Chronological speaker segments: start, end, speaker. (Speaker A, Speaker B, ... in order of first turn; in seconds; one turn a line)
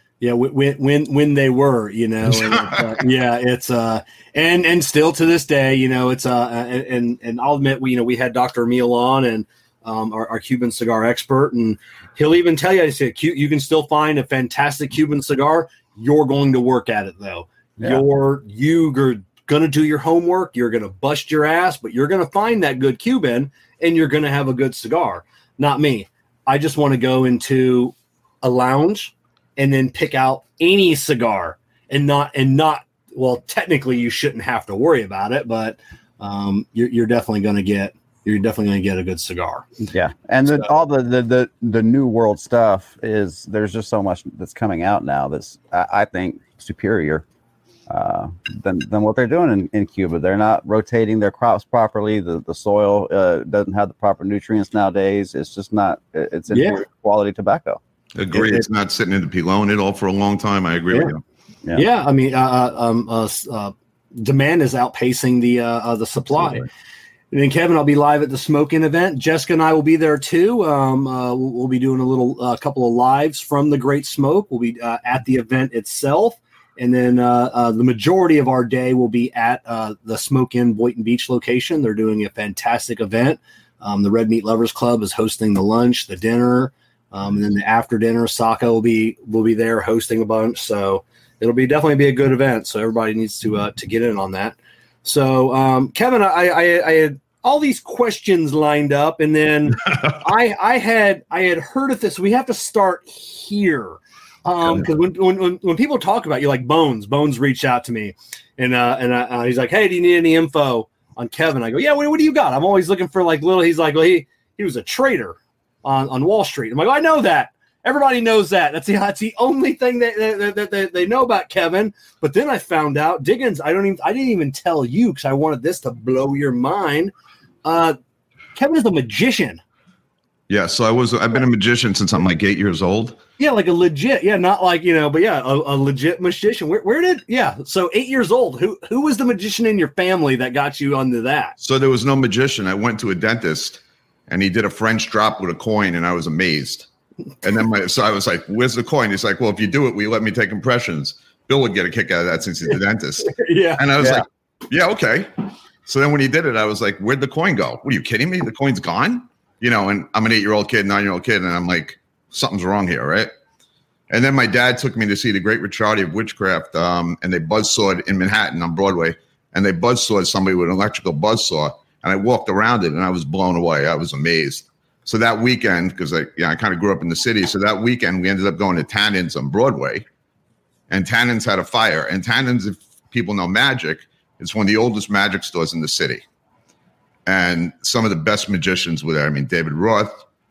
Speaker A: 0.2-39.6
Speaker B: 2.4-2.8
Speaker C: 39.8-47.2
Speaker C: 47.9-57.8
Speaker A: 56.5-56.8
Speaker B: 58.1-61.2
Speaker A: 58.3-58.6
Speaker A: 61.7-66.7
Speaker B: 66.4-66.7
Speaker A: 67.3-127.1
Speaker B: 104.6-104.9
Speaker A: 127.6-128.0
Speaker A: 128.5-129.6
Speaker B: 130.5-133.2
Speaker A: 133.4-141.5
Speaker B: 141.6-146.9
Speaker B: 147.4-155.3
Speaker A: 152.7-154.2
Speaker B: 155.8-163.3
Speaker B: 164.1-180.1
Speaker B: 180.9-186.2
Speaker B: 187.3-190.2